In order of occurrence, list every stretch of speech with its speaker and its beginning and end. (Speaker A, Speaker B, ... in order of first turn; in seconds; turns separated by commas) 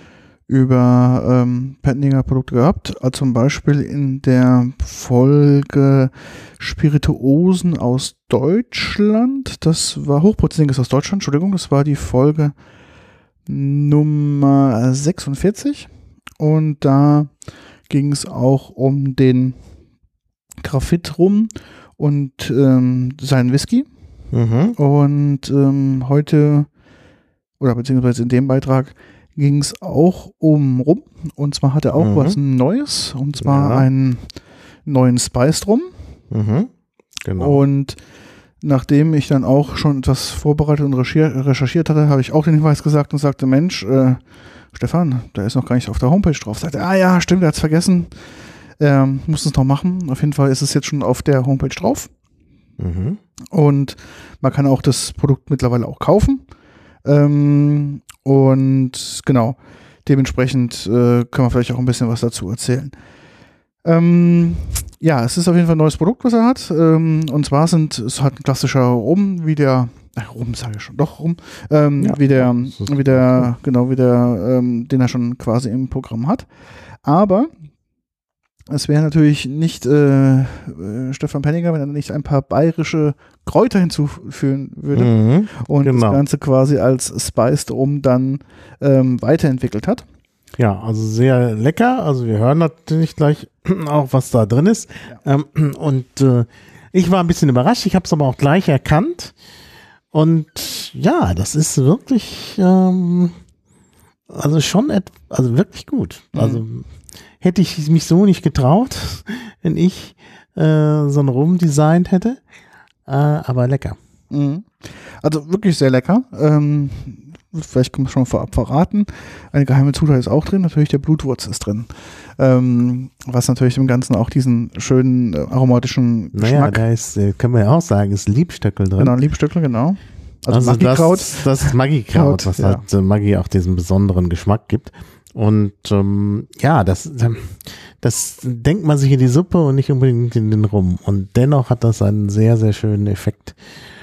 Speaker A: 0.5-12.6, Speaker A: 13.4-19.7, Speaker A: 20.6-24.1, Speaker B: 24.3-24.8, Speaker A: 24.8-26.8, Speaker A: 27.6-36.0, Speaker B: 32.0-32.4, Speaker B: 33.4-33.9, Speaker B: 36.3-36.7, Speaker B: 37.2-37.6, Speaker A: 37.4-38.0, Speaker A: 38.6-52.1, Speaker B: 52.8-53.2, Speaker A: 53.5-56.5, Speaker A: 57.0-63.0, Speaker A: 63.8-77.7, Speaker B: 72.0-73.5, Speaker A: 78.7-90.1, Speaker B: 85.0-86.2, Speaker B: 90.6-99.3, Speaker B: 100.1-103.4, Speaker B: 104.3-112.4, Speaker A: 106.3-106.6, Speaker B: 113.1-114.0, Speaker A: 114.3-126.8, Speaker B: 126.3-129.2, Speaker A: 129.0-132.8, Speaker B: 130.5-143.6